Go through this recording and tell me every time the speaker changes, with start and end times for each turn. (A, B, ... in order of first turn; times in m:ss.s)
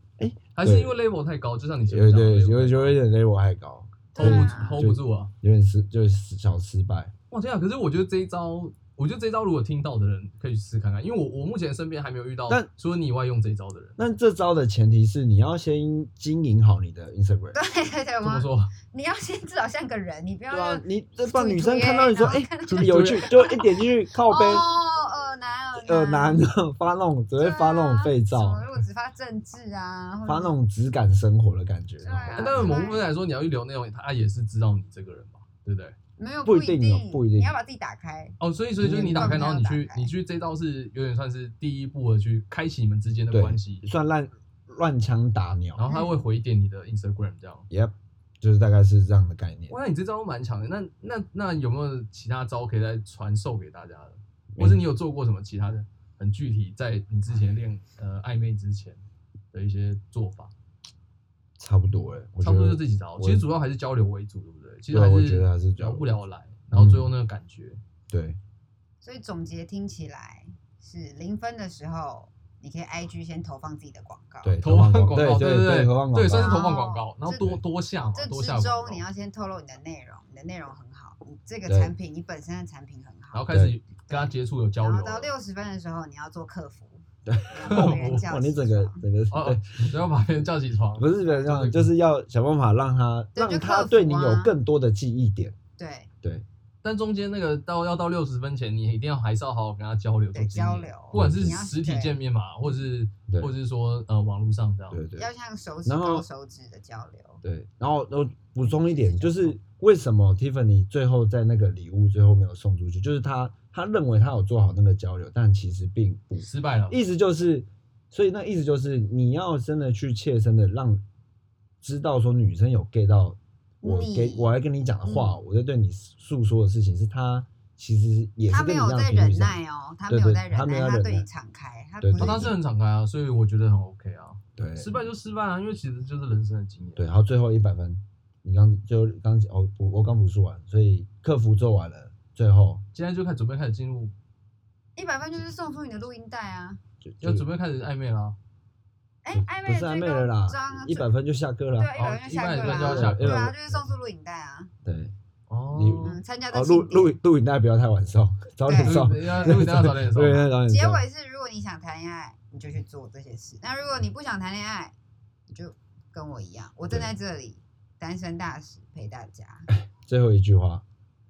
0:00.2-0:01.0 A
0:00.6-0:03.0 B
0:01.9-0:07.1 A
0:04.1-0:04.8 C
0:04.2-0:05.3 B
0:07.3-0:14.0 B
0:14.0-0:17.6 A
0:17.5-0:26.5 C
0:18.2-0:18.7 B
0:20.5-0:24.7 A
0:22.7-0:23.6 B
0:25.7-0:28.7 A
0:27.4-0:30.5 C
0:30.2-0:32.8 A
0:32.0-0:33.1 C
0:32.4-0:36.0 B
0:36.2-0:40.1 C
0:36.4-0:37.5 A
0:38.4-0:43.8 B
0:38.8-0:39.4 A
0:43.3-0:45.9 A
0:45.8-0:47.7 B
0:45.9-0:46.1 C
0:47.7-0:49.8 A
0:49.7-1:00.5 B
0:54.6-0:54.8 A
1:01.6-1:03.5 A
1:02.4-1:07.8 B
1:04.9-1:06.1 A
1:06.7-1:07.1 A
1:08.1-1:08.4 A
1:09.0-1:14.6 C
1:14.4-1:16.7 A
1:14.6-1:19.0 B
1:16.3-1:17.6 C
1:17.4-1:17.6 A
1:18.2-1:23.4 C
1:21.7-1:21.9 A
1:23.3-1:25.3 B
1:23.5-1:23.8 A
1:24.1-1:29.0 C
1:27.3-1:30.0 A
1:27.6-1:28.3 B
1:29.3-1:31.9 B
1:31.0-1:35.6 A
1:33.4-1:34.5 C
1:35.8-1:36.1 C
1:36.8-1:45.0 B
1:40.3-1:42.8 C
1:41.1-1:41.6 A
1:43.3-1:43.5 A
1:44.9-1:45.3 A
1:45.2-1:47.4 C
1:45.9-1:46.3 A
1:47.4-2:01.0 A
1:48.6-1:49.6 C
1:56.4-1:57.0 B
2:01.8-2:09.6 A
2:03.8-2:05.4 C
2:08.5-2:12.6 C
2:10.1-2:11.3 A
2:12.0-2:12.6 A
2:12.2-2:17.1 B
2:14.6-2:15.1 A
2:17.0-2:22.8 A
2:22.9-2:24.1 B
2:25.0-2:26.8 C
2:27.0-2:27.4 A
2:27.2-2:28.4 B
2:29.2-2:31.1 C
2:29.3-2:31.9 A
2:31.8-2:34.7 C
2:32.0-2:33.6 B
2:32.6-2:33.6 A
2:34.8-2:35.1 A
2:35.5-2:36.2 B
2:35.7-2:41.0 A
2:36.0-2:37.2 C
2:38.6-2:39.6 C
2:38.8-2:40.5 B
2:40.7-2:45.0 C
2:45.5-2:49.7 C
2:49.7-2:50.8 A